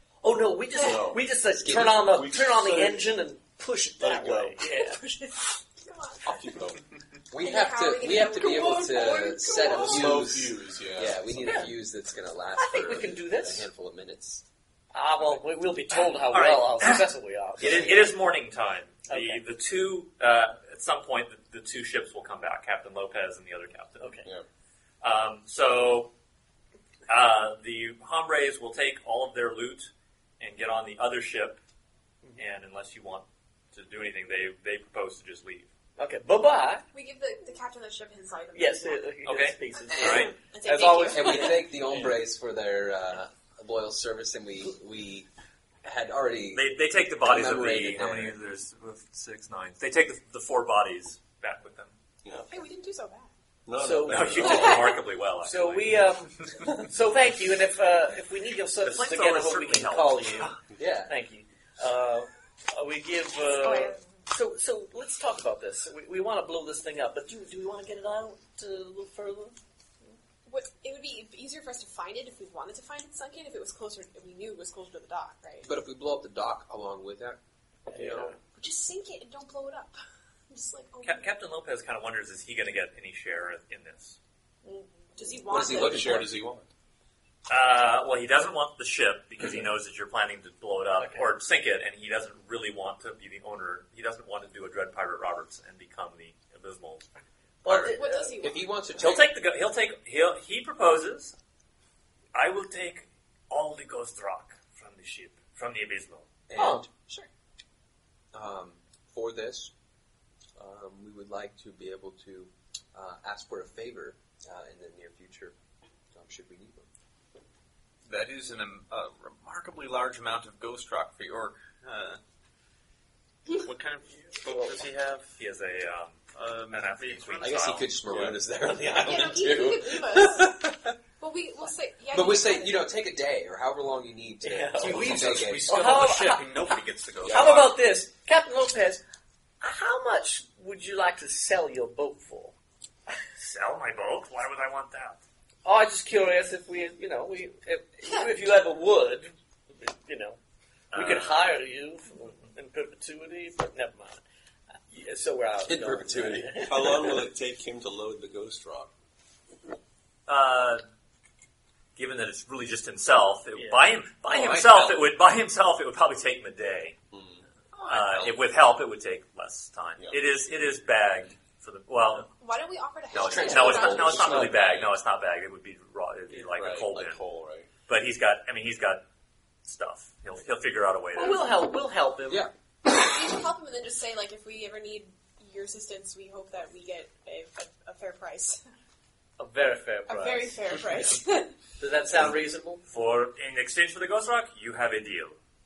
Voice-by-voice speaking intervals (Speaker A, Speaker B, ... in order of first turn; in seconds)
Speaker A: 0.2-5.1, 11.4-11.7, 12.6-13.7, 14.9-18.0, 19.1-19.4, 24.0-24.3, 36.0-36.9, 38.5-42.1, 53.8-69.5, 77.9-78.4, 91.0-91.2, 97.6-98.4, 106.5-106.9, 124.4-124.7, 134.4-136.7, 137.3-139.0, 139.6-142.6, 145.6-150.4, 150.9-154.2, 154.9-157.2, 163.6-163.8, 181.1-182.5, 189.4-190.6, 191.8-192.8
Speaker B: 0.7-1.0, 4.8-6.4, 7.3-10.2, 36.9-39.1, 39.9-41.7, 52.5-53.3, 63.6-64.0, 70.5-75.7, 78.5-80.0, 80.5-81.3, 84.6-86.2, 97.9-98.7, 129.0-130.6, 131.2-132.8, 172.4-174.5, 182.9-188.6, 190.1-191.5
Speaker C: 0.7-3.2, 4.0-4.6, 6.2-6.8, 9.6-11.5, 52.2-52.5, 53.7-54.9, 85.5-86.7, 128.1-128.4, 137.2-137.7, 156.6-158.9, 167.1-167.4, 176.4-177.7
Speaker D: 1.6-2.2, 7.3-14.4, 41.1-45.3, 45.8-48.4, 60.7-61.1, 75.6-77.4, 77.9-78.3, 85.5-86.3, 98.4-99.3, 106.5-106.9, 108.3-109.7, 110.5-115.5, 116.1-116.9, 127.4-130.8, 132.1-135.7, 155.7-156.9, 173.1-174.8, 182.3-182.5
Speaker E: 16.3-24.2, 25.0-26.1, 27.1-31.6, 32.4-35.7, 39.2-40.3, 46.5-51.9, 54.0-56.0, 58.8-60.5, 81.0-84.2, 87.5-97.1, 97.7-98.0, 99.0-101.3, 102.3-106.3, 125.4-127.9, 143.4-145.2, 150.9-151.5, 160.3-160.8, 161.9-167.0, 167.8-172.3, 173.2-177.2, 177.9-179.0, 179.6-181.5, 192.9-195.4
Speaker F: 118.0-122.2, 123.6-125.3, 126.3-127.6, 134.8-137.7